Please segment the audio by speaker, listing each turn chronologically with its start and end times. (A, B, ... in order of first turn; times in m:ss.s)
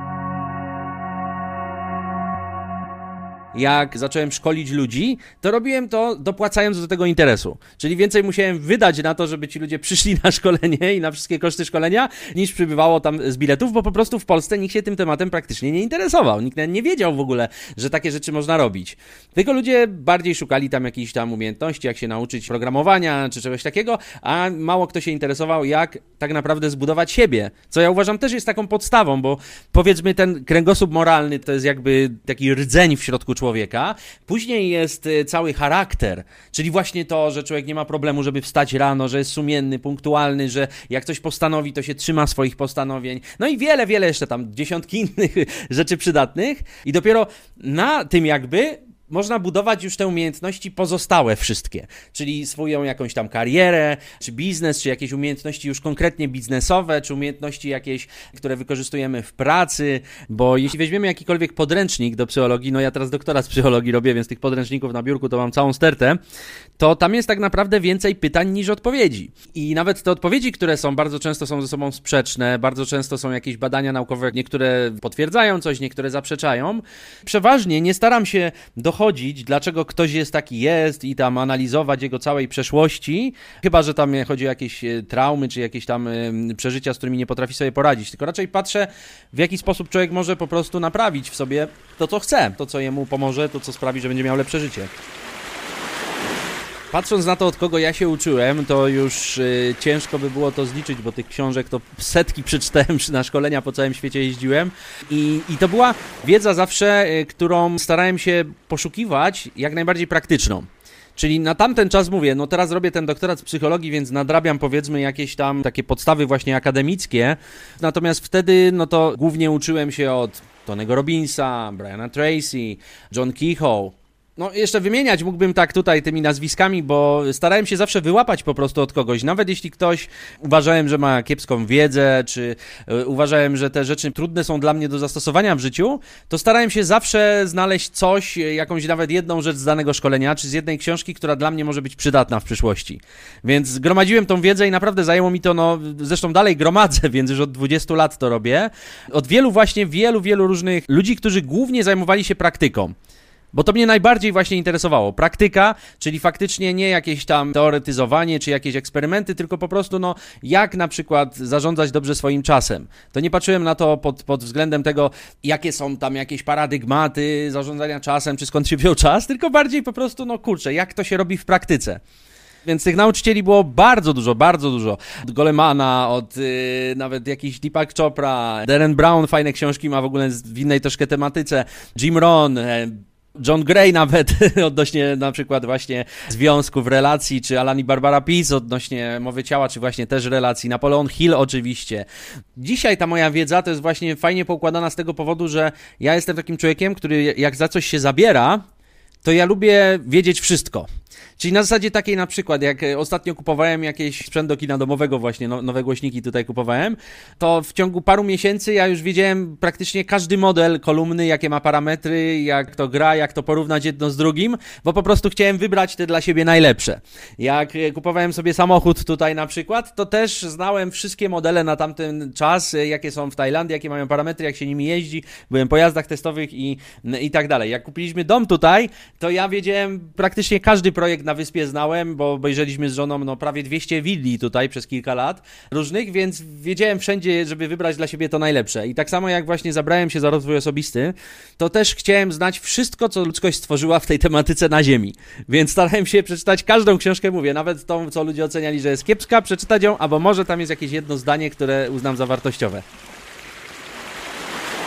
0:03.5-1:06.2 A
1:06.8-1:34.9 A
1:36.9-2:32.9 A
2:33.5-2:52.0 A
2:52.6-3:18.6 A
3:19.2-4:12.8 A